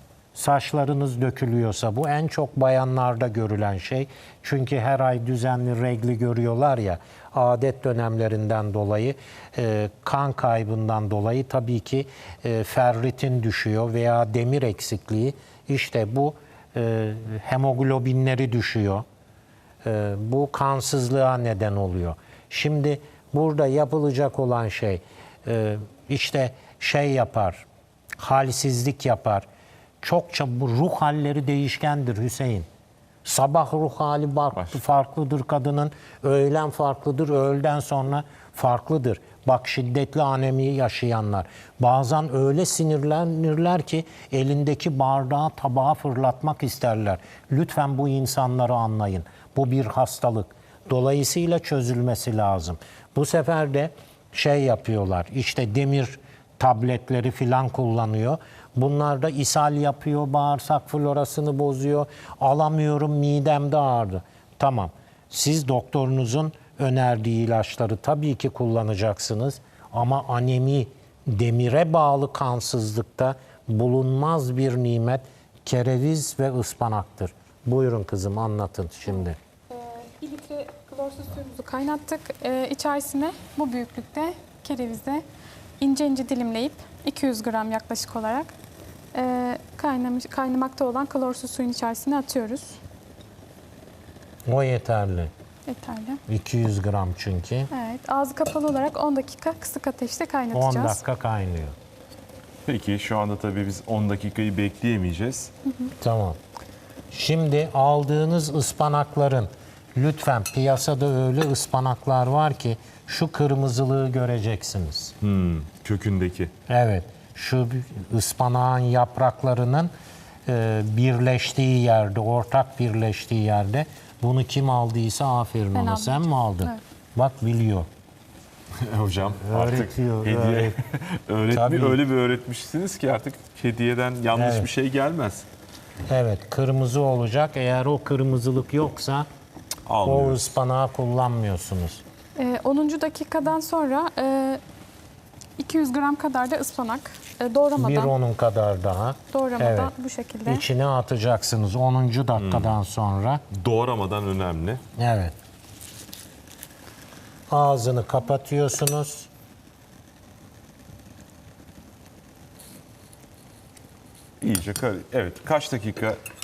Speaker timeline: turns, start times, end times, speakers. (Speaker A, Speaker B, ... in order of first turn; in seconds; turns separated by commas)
Speaker A: 0.3-19.0, Speaker A: 19.8-27.6, Speaker A: 28.2-29.4, Speaker A: 30.0-32.7, Speaker A: 33.2-79.4, Speaker B: 34.5-34.8, Speaker C: 79.7-85.2, Speaker C: 85.8-88.5, Speaker C: 89.1-92.8, Speaker A: 94.5-95.3, Speaker C: 95.7-96.2, Speaker A: 96.3-97.7, Speaker C: 97.7-101.0, Speaker A: 100.5-101.7, Speaker B: 102.7-105.5, Speaker C: 105.7-105.9, Speaker A: 106.0-106.4, Speaker A: 107.1-115.1, Speaker B: 115.2-116.5, Speaker A: 116.7-119.9, Speaker A: 120.5-127.9, Speaker C: 125.7-126.8, Speaker B: 128.8-135.5, Speaker A: 129.4-130.8, Speaker A: 131.5-132.0, Speaker A: 134.3-134.7, Speaker A: 136.1-139.3, Speaker B: 139.9-140.5, Speaker A: 140.0-142.0, Speaker C: 142.4-144.6, Speaker C: 145.6-148.1, Speaker A: 147.8-149.9, Speaker C: 149.3-150.6, Speaker A: 150.4-153.4, Speaker B: 152.4-152.7, Speaker B: 153.5-154.8, Speaker A: 155.0-155.3, Speaker A: 157.5-159.3, Speaker B: 164.4-166.2